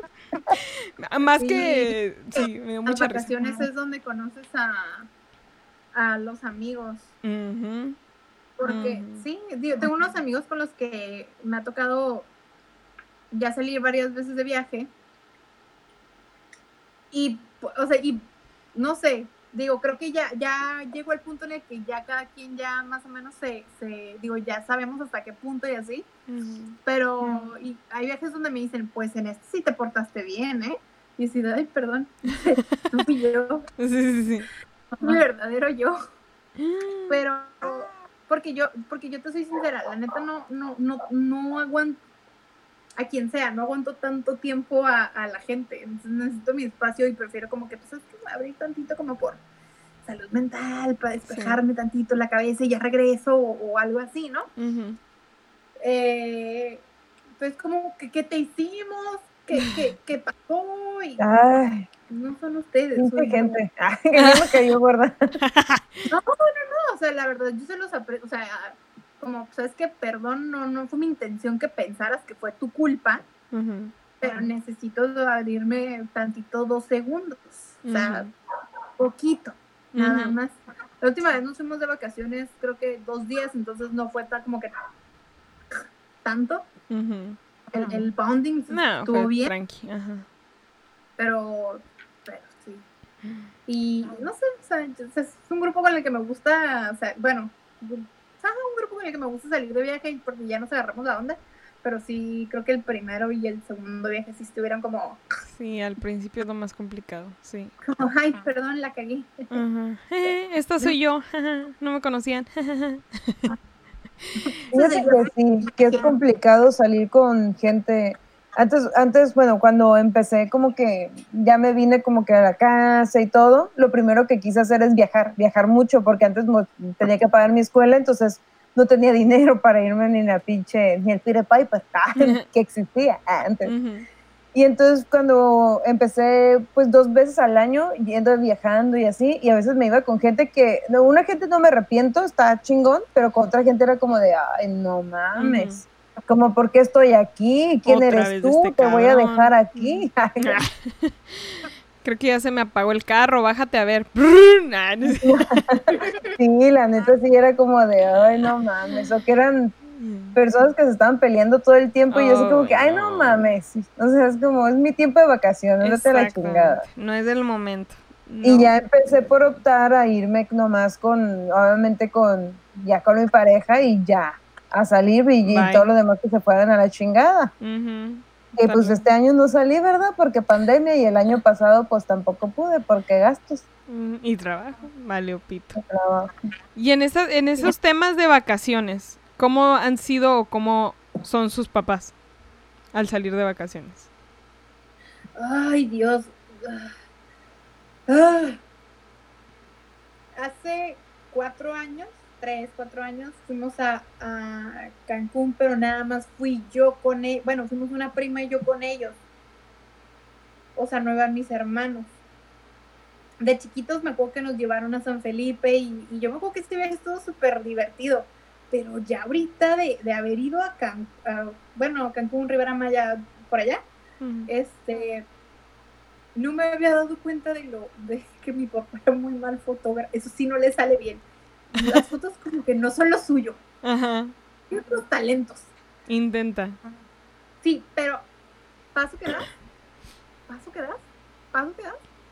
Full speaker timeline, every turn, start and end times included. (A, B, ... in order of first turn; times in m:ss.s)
0:00.5-0:03.3 A
0:01.4-0:05.1 B
0:05.9-0:07.1 B
0:07.2-0:08.0 A
0:08.6-0:12.3 B
0:08.6-0:09.2 A
0:13.3-0:14.9 B
0:17.1-0:26.1 B
0:26.3-0:26.8 A
0:26.8-0:33.7 B
0:33.8-0:34.5 A
0:35.0-0:36.0 B
0:36.6-0:37.2 A
0:37.1-0:42.0 B
0:43.0-0:49.4 B
0:50.1-0:54.5 B
0:51.3-0:51.6 A
0:54.6-0:55.0 A
0:55.8-0:56.8 B
0:57.4-1:01.2 B
0:59.5-0:59.8 A
1:01.2-1:01.9 C
1:02.1-1:03.6 B
1:03.0-1:05.3 C
1:04.2-1:04.6 A
1:05.4-1:06.1 A
1:06.1-1:13.2 B
1:13.5-1:13.9 A
1:14.2-1:18.3 B
1:17.9-1:18.3 A
1:19.0-1:24.7 B
1:19.9-1:20.4 A
1:25.7-1:26.7 B
1:26.9-1:28.0 A
1:27.7-1:29.5 B
1:28.7-1:30.3 A
1:31.2-1:32.8 B
1:33.7-1:45.2 B
1:45.5-1:47.7 A
1:47.9-1:49.6 B
1:49.5-1:53.5 A
1:54.4-1:55.3 B
1:54.7-2:13.7 C
2:12.2-2:12.4 A
2:13.6-2:14.1 A
2:14.5-2:30.6 C
2:25.4-2:25.8 A
2:27.9-2:35.6 A
2:35.0-2:39.8 C
2:39.9-2:40.4 A
2:40.4-2:46.8 C
2:42.1-2:43.5 A
2:45.8-2:49.6 A
2:48.4-2:57.5 C
2:55.5-2:55.9 A
2:57.6-2:59.1 A
2:58.6-3:03.6 C
3:03.9-3:05.8 A
3:05.8-3:06.3 C
3:06.8-3:12.1 A
3:12.9-3:14.1 A
3:15.4-3:17.0 B
3:18.1-3:18.6 B
3:20.4-3:29.2 B
3:30.8-3:32.1 B
3:33.4-3:43.8 B
3:44.2-3:44.5 A
3:44.5-3:45.3 B
3:46.4-3:51.2 B
3:51.8-3:53.6 B
3:51.8-3:52.0 A
3:53.8-3:54.3 A
3:54.7-3:55.7 B
3:56.1-3:56.8 A
3:57.6-3:58.3 B
3:58.9-3:59.5 B
4:00.5-4:02.0 B